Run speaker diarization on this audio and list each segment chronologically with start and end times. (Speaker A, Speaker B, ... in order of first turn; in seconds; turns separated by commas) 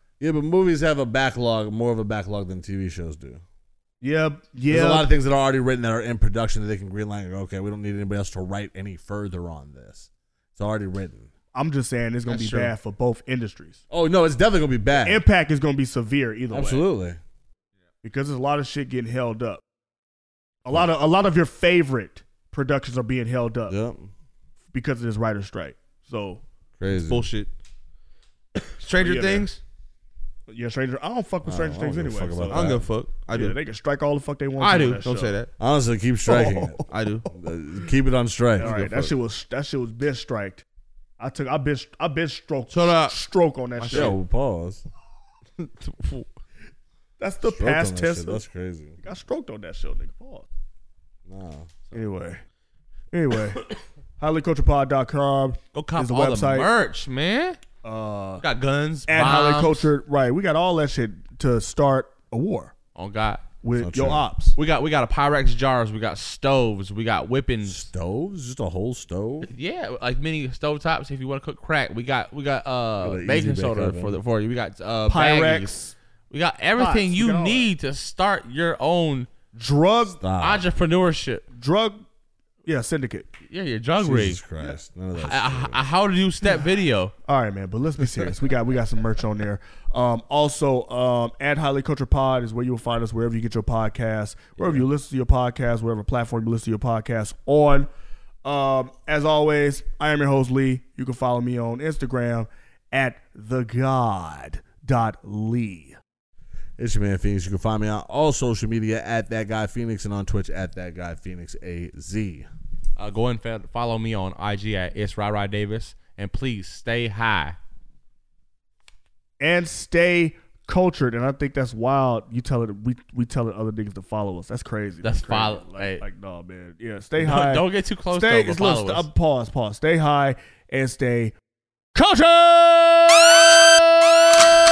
Speaker A: 0.2-3.4, Speaker B: 4.0-5.1, Speaker A: 4.7-11.3, Speaker B: 11.5-13.8, Speaker C: 12.3-12.7, Speaker A: 13.9-15.2, Speaker B: 15.0-16.8, Speaker A: 16.5-17.2, Speaker B: 18.0-19.6, Speaker B: 20.6-23.8, Speaker A: 23.7-24.1, Speaker B: 24.7-26.4, Speaker A: 26.8-27.3, Speaker C: 27.0-27.5, Speaker C: 28.6-29.6, Speaker B: 29.0-29.5, Speaker B: 30.5-32.7, Speaker A: 31.4-32.9, Speaker C: 32.5-33.6, Speaker B: 33.3-35.4, Speaker C: 34.6-35.5, Speaker A: 35.6-39.2, Speaker B: 36.3-36.8, Speaker C: 36.9-37.3, Speaker B: 38.6-40.6, Speaker B: 41.2-44.2, Speaker C: 42.7-43.2, Speaker C: 43.8-44.2, Speaker A: 43.9-44.9, Speaker C: 45.6-46.3, Speaker B: 47.2-48.4, Speaker A: 47.5-49.0, Speaker B: 49.0-50.5, Speaker A: 51.3-51.8, Speaker B: 51.9-52.4, Speaker B: 53.1-53.6, Speaker B: 54.2-56.7, Speaker C: 55.7-57.6, Speaker B: 57.8-58.4, Speaker C: 58.4-59.9, Speaker B: 59.1-62.7, Speaker C: 63.0-63.5, Speaker B: 63.6-64.6, Speaker A: 63.8-64.3, Speaker C: 64.6-67.8, Speaker A: 67.7-69.5, Speaker C: 69.4-75.8, Speaker A: 73.0-74.2, Speaker B: 75.1-75.9, Speaker C: 76.3-79.3, Speaker B: 76.8-77.7, Speaker B: 79.5-80.2, Speaker A: 80.2-80.7, Speaker C: 80.4-81.4, Speaker B: 81.5-82.0, Speaker B: 82.7-83.3, Speaker C: 83.5-84.4, Speaker A: 84.0-85.8, Speaker C: 85.2-87.1, Speaker B: 87.3-97.9, Speaker B: 98.4-106.0, Speaker A: 106.8-112.5, Speaker C: 113.0-117.6, Speaker B: 119.4-131.3, Speaker C: 125.0-126.0, Speaker C: 127.2-129.1, Speaker B: 131.9-133.5